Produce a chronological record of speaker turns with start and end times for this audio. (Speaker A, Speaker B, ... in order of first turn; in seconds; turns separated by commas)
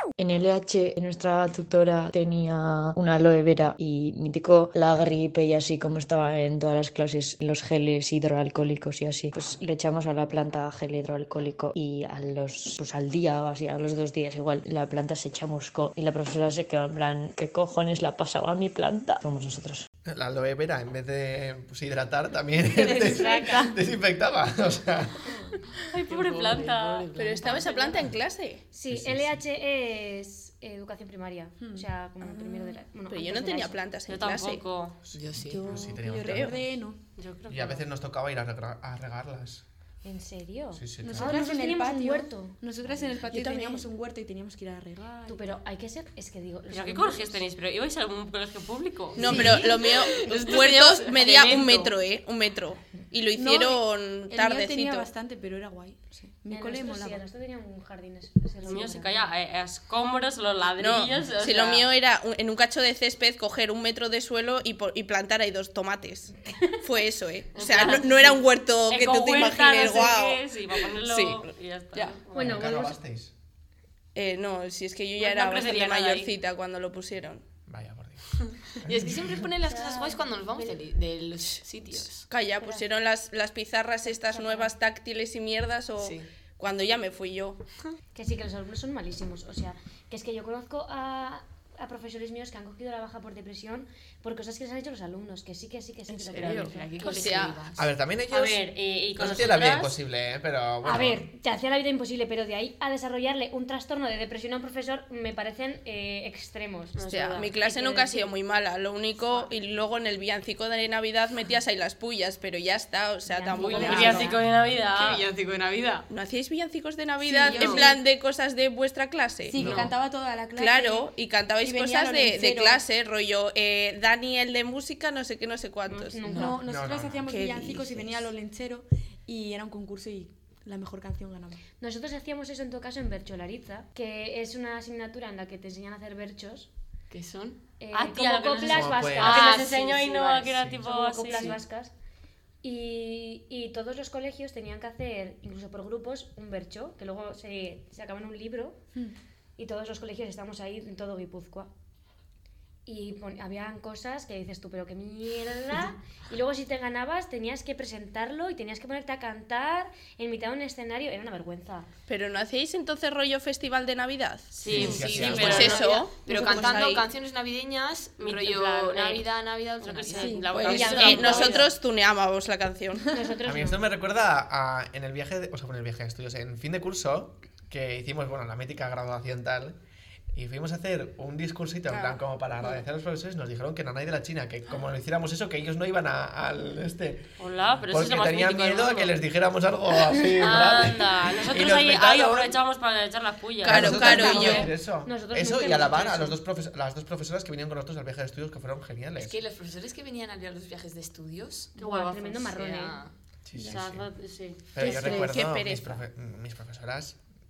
Speaker A: 0.2-19.8, Speaker B: 20.1-25.2, Speaker C: 22.7-23.7, Speaker D: 25.9-27.9, Speaker E: 26.1-27.9, Speaker F: 27.1-28.6, Speaker G: 28.7-33.8, Speaker B: 28.9-29.4, Speaker C: 31.6-32.7, Speaker F: 33.1-34.6, Speaker D: 34.1-35.0, Speaker B: 35.1-36.7, Speaker E: 35.1-35.7, Speaker C: 35.4-37.0, Speaker F: 36.2-36.5, Speaker D: 37.2-37.9, Speaker B: 37.5-39.6, Speaker G: 40.0-42.6, Speaker B: 40.7-41.4, Speaker C: 41.0-45.6, Speaker F: 43.2-43.8, Speaker G: 45.3-47.4, Speaker D: 46.7-50.4, Speaker F: 49.1-55.1, Speaker E: 49.2-51.9, Speaker C: 49.2-49.6, Speaker C: 53.3-57.2, Speaker G: 56.5-59.3, Speaker D: 58.6-61.9, Speaker F: 60.8-66.3, Speaker G: 66.5-66.8, Speaker F: 66.8-72.2, Speaker D: 67.5-72.7, Speaker G: 72.3-73.0, Speaker B: 72.3-73.3, Speaker F: 74.1-77.4, Speaker D: 75.2-76.3, Speaker B: 77.7-79.4, Speaker E: 78.8-82.3, Speaker G: 79.6-80.8, Speaker F: 82.3-87.6, Speaker G: 82.6-82.8, Speaker G: 84.2-84.7, Speaker E: 86.0-86.3, Speaker G: 88.1-97.1, Speaker E: 96.1-97.9, Speaker F: 97.0-97.6, Speaker B: 97.7-101.3, Speaker D: 98.3-100.0, Speaker G: 100.8-107.0, Speaker D: 106.9-107.5, Speaker F: 107.1-114.3, Speaker G: 107.5-108.4, Speaker G: 109.2-109.5, Speaker G: 113.3-114.4, Speaker C: 113.6-114.3, Speaker D: 113.6-115.2, Speaker E: 113.8-114.2, Speaker B: 114.4-114.8, Speaker E: 114.9-116.1, Speaker F: 116.1-119.9, Speaker C: 117.2-118.0, Speaker G: 117.5-117.9, Speaker E: 117.5-117.9, Speaker C: 119.5-122.8, Speaker B: 119.6-119.9, Speaker F: 120.4-126.5, Speaker G: 126.1-126.6, Speaker C: 126.3-131.6, Speaker B: 126.4-127.3, Speaker F: 127.3-128.1, Speaker G: 131.8-136.7, Speaker E: 137.1-137.6, Speaker G: 137.8-139.9, Speaker D: 137.9-141.6, Speaker B: 138.7-139.4, Speaker E: 139.2-140.6, Speaker G: 140.8-141.9, Speaker G: 142.6-148.8, Speaker G: 149.6-151.7, Speaker G: 152.8-161.9, Speaker F: 162.1-167.1, Speaker D: 164.5-166.8, Speaker B: 164.7-165.8, Speaker E: 164.7-171.6, Speaker D: 168.2-171.7, Speaker C: 170.2-170.5, Speaker F: 170.6-173.1, Speaker G: 170.7-171.5, Speaker G: 173.1-173.8, Speaker B: 173.4-179.8, Speaker B: 180.3-192.5, Speaker F: 181.9-182.2, Speaker D: 187.4-189.1, Speaker D: 190.4-194.7, Speaker F: 193.6-194.7, Speaker B: 193.6-199.4, Speaker E: 194.2-194.6, Speaker G: 195.0-196.4, Speaker E: 199.2-201.7, Speaker D: 201.8-202.9, Speaker G: 201.8-203.0, Speaker E: 202.7-203.1, Speaker B: 203.4-204.1, Speaker D: 203.6-204.7, Speaker B: 204.7-207.2, Speaker F: 204.8-206.0, Speaker E: 204.8-205.2